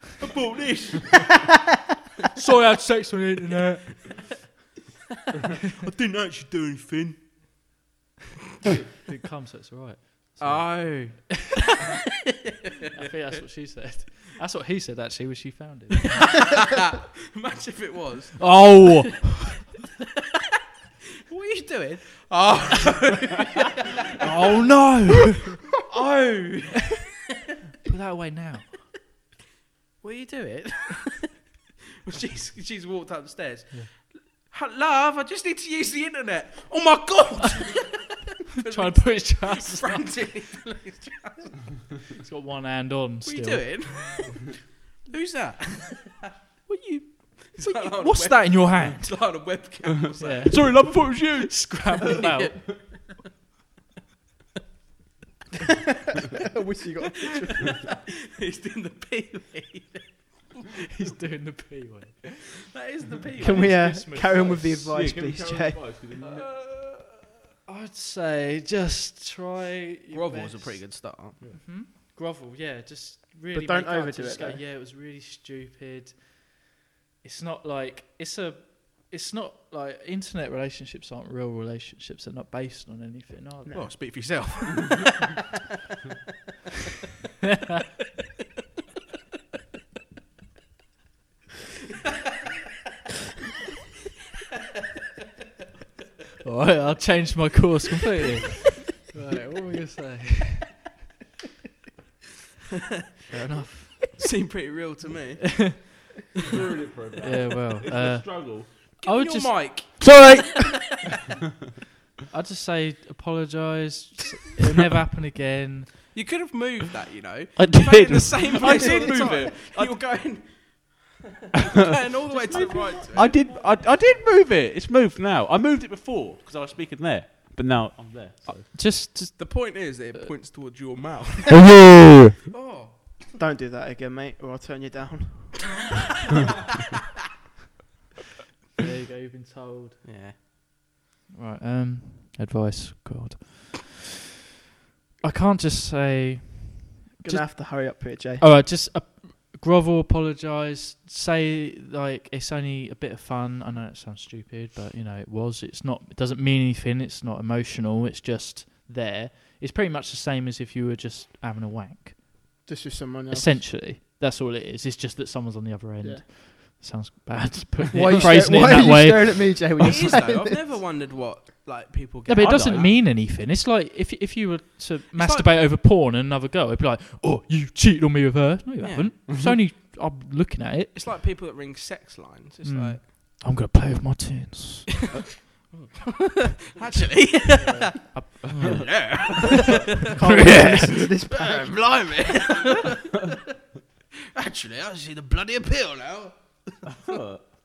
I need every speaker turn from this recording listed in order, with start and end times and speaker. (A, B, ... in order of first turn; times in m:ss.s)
0:00.2-0:01.4 A
0:02.4-0:04.0 B
0:05.7-0:07.7 A
0:09.0-0:11.6 B
0:10.4-0:11.8 A
0:12.9-0:16.3 B
0:16.2-0:19.2 A
0:18.4-0:19.3 B
0:21.3-0:24.7 A
0:24.2-0:25.6 B
0:25.3-0:27.1 A
0:27.8-0:28.8 B
0:30.0-0:31.4 A
0:32.0-0:41.9 A
0:38.6-0:40.1 B
0:42.2-0:43.7 B
0:43.2-0:46.3 A
0:46.7-0:49.2 B
0:47.4-0:51.1 A
0:50.2-0:50.9 B
0:50.5-0:51.8 C
0:51.5-0:52.7 B
0:51.9-0:53.2 A
0:56.3-0:58.0 D
0:57.2-1:00.7 A
1:00.9-1:02.3 B
1:02.7-1:04.0 A
1:03.4-1:05.9 D
1:03.5-1:04.7 B
1:04.4-1:06.5 C
1:06.2-1:07.2 A
1:07.7-1:16.6 B
1:10.1-1:11.4 A
1:13.5-1:14.6 D
1:17.2-1:24.1 B
1:23.7-1:23.9 D
1:23.7-1:25.3 A
1:36.4-1:40.8 B
1:43.3-1:44.1 B
1:44.2-1:46.0 A
1:46.5-1:48.7 C
1:47.2-1:50.0 B
1:49.0-1:51.1 A
1:50.1-1:50.6 C
1:52.3-1:56.2 B
1:56.1-2:03.4 A
1:57.6-1:59.4 B
1:57.7-2:00.0 C
2:02.3-2:03.5 B
2:02.4-2:08.7 C
2:08.7-2:09.6 B
2:09.4-2:11.6 A
2:11.6-2:12.3 C
2:12.5-2:13.2 A
2:13.4-2:15.9 D
2:18.8-2:20.0 B
2:20.0-2:20.4 A
2:21.3-2:24.0 B
2:25.2-2:42.2 B
2:27.2-2:28.4 D
2:42.7-2:43.6 D
2:43.3-2:49.6 B
2:47.9-2:50.6 D
2:49.8-2:52.9 A
2:52.3-3:01.0 B
2:52.4-2:53.0 C
2:55.2-2:55.5 A
2:58.8-2:59.2 A
3:00.9-3:03.0 A
3:02.6-3:04.9 B
3:05.5-3:09.8 A
3:08.1-3:09.1 B
3:10.1-3:11.0 B
3:10.1-3:12.0 D
3:10.5-3:13.4 A
3:14.4-3:17.2 A
3:16.9-3:17.5 C